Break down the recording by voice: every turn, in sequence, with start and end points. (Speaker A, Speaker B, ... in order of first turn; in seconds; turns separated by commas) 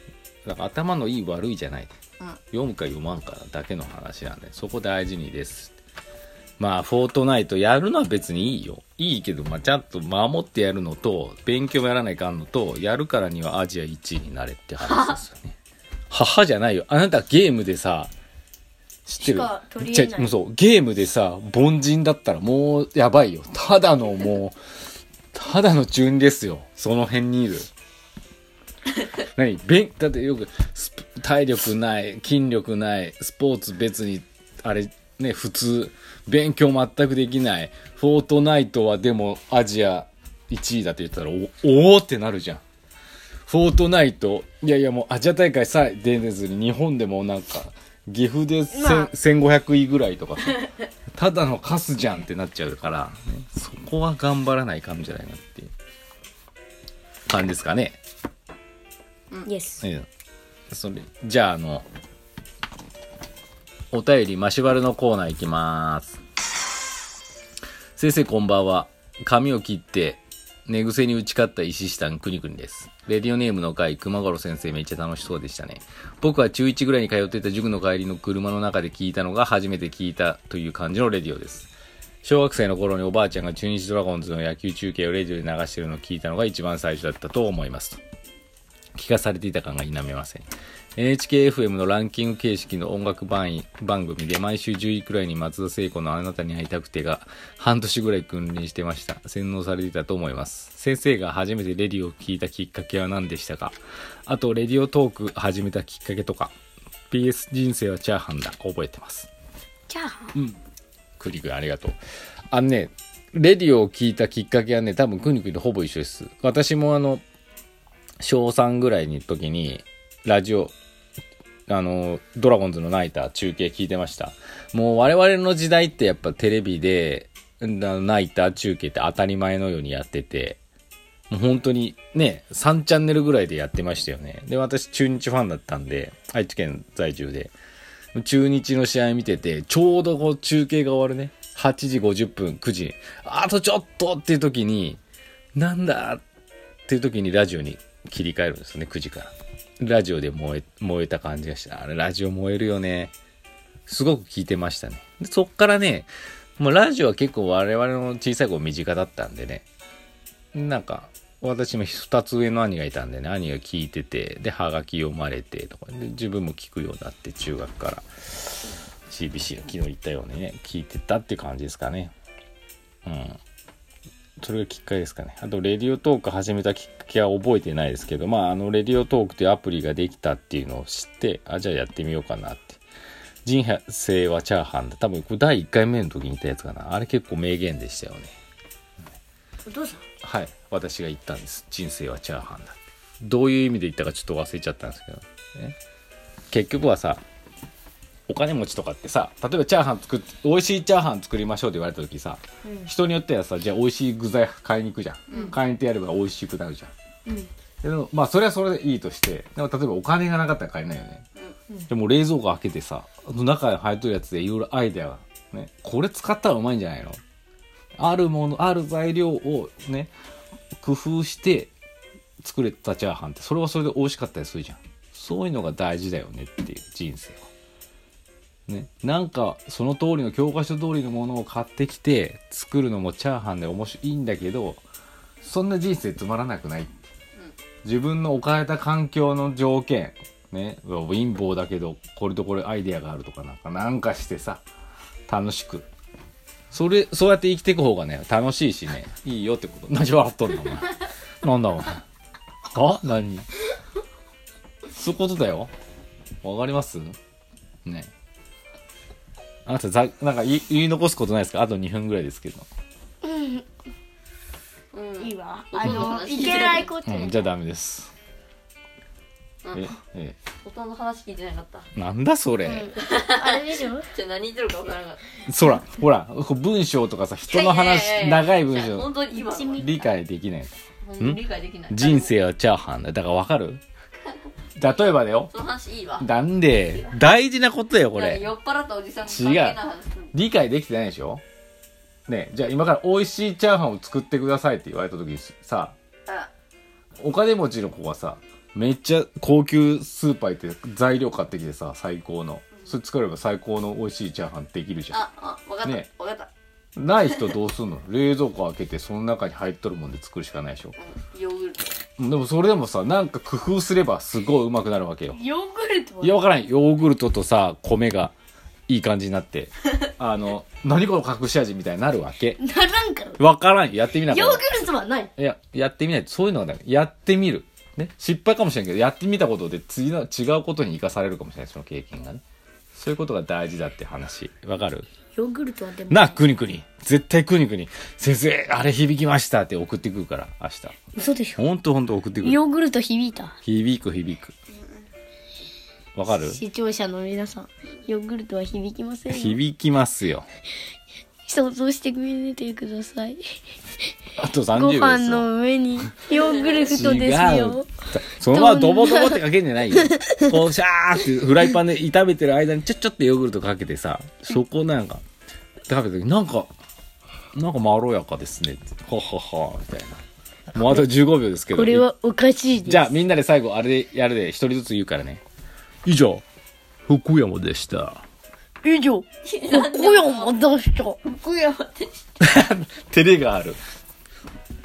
Speaker A: 0.5-1.9, Speaker A: 2.5-5.8, Speaker A: 6.6-15.6, Speaker B: 14.8-15.2, Speaker A: 16.1-18.1, Speaker A: 19.1-24.6, Speaker C: 19.2-20.4, Speaker A: 25.3-27.7, Speaker A: 29.4-42.6, Speaker A: 43.5-55.7, Speaker C: 48.7-49.1, Speaker A: 57.3-58.0, Speaker C: 59.5-59.9, Speaker A: 59.8-60.1, Speaker A: 60.7-61.9, Speaker A: 63.9-66.2, Speaker A: 68.0-81.7, Speaker A: 82.2-88.0, Speaker A: 89.0-106.5, Speaker A: 107.1-109.3, Speaker C: 109.9-110.4, Speaker A: 111.2-112.0, Speaker A: 112.5-117.2, Speaker A: 118.2-120.7, Speaker A: 121.7-130.6, Speaker A: 131.3-137.5, Speaker A: 138.2-145.0, Speaker A: 145.6-146.2, Speaker A: 146.9-153.1, Speaker A: 153.9-159.7, Speaker A: 160.5-172.1, Speaker A: 173.1-173.4, Speaker A: 174.4-182.8, Speaker A: 183.4-188.3, Speaker C: 189.7-190.0, Speaker A: 190.2-195.8, Speaker A: 196.5-197.2, Speaker A: 198.3-206.9, Speaker C: 202.7-202.9, Speaker B: 205.3-205.6, Speaker A: 207.8-211.3, Speaker A: 211.9-217.2, Speaker A: 218.0-220.1, Speaker A: 220.8-221.7, Speaker A: 222.4-227.5, Speaker A: 228.7-234.8, Speaker A: 235.4-236.9, Speaker A: 237.8-244.6, Speaker A: 245.3-245.9, Speaker A: 246.7-252.0, Speaker A: 252.7-253.5, Speaker A: 254.9-255.7, Speaker A: 256.4-257.2, Speaker A: 257.9-258.1, Speaker A: 259.7-262.7, Speaker C: 263.2-263.6, Speaker B: 264.9-266.9, Speaker C: 265.2-267.5, Speaker A: 265.8-266.2, Speaker A: 267.0-268.1, Speaker B: 269.6-269.9, Speaker A: 269.7-270.4, Speaker B: 270.6-271.9, Speaker A: 271.9-272.9, Speaker C: 272.6-274.1, Speaker B: 273.0-275.2, Speaker A: 275.5-279.1, Speaker B: 277.5-279.9, Speaker C: 279.3-280.1, Speaker A: 279.6-283.8, Speaker B: 281.0-282.3, Speaker B: 284.2-284.5, Speaker A: 284.8-285.5, Speaker B: 285.5-286.3, Speaker A: 286.2-288.5, Speaker B: 288.1-290.3, Speaker A: 289.2-289.8, Speaker A: 290.3-291.4, Speaker A: 292.3-296.0, Speaker A: 297.2-305.2, Speaker B: 305.1-306.5, Speaker A: 307.0-310.9, Speaker B: 311.0-312.0, Speaker A: 312.2-315.4, Speaker C: 315.3-316.4, Speaker A: 316.2-318.3, Speaker A: 318.9-322.6, Speaker C: 322.6-323.4, Speaker A: 323.4-324.6, Speaker C: 324.3-325.3, Speaker A: 325.4-332.4, Speaker A: 332.9-335.1, Speaker C: 335.4-336.4, Speaker A: 336.1-340.9, Speaker C: 341.1-341.6, Speaker A: 341.6-342.6, Speaker C: 342.4-343.6, Speaker A: 343.6-344.6, Speaker A: 346.1-346.6, Speaker C: 346.3-349.6, Speaker A: 349.3-350.5, Speaker C: 351.5-353.4, Speaker A: 354.4-355.5, Speaker C: 354.7-359.4, Speaker A: 356.9-365.2, Speaker C: 360.0-360.5, Speaker A: 365.9-366.7, Speaker A: 367.5-370.2, Speaker A: 370.7-372.1, Speaker C: 371.7-373.1, Speaker A: 372.9-375.4, Speaker A: 376.0-376.4, Speaker A: 377.1-378.2, Speaker C: 378.8-381.8, Speaker B: 379.4-380.7, Speaker B: 381.6-382.1, Speaker A: 382.4-383.8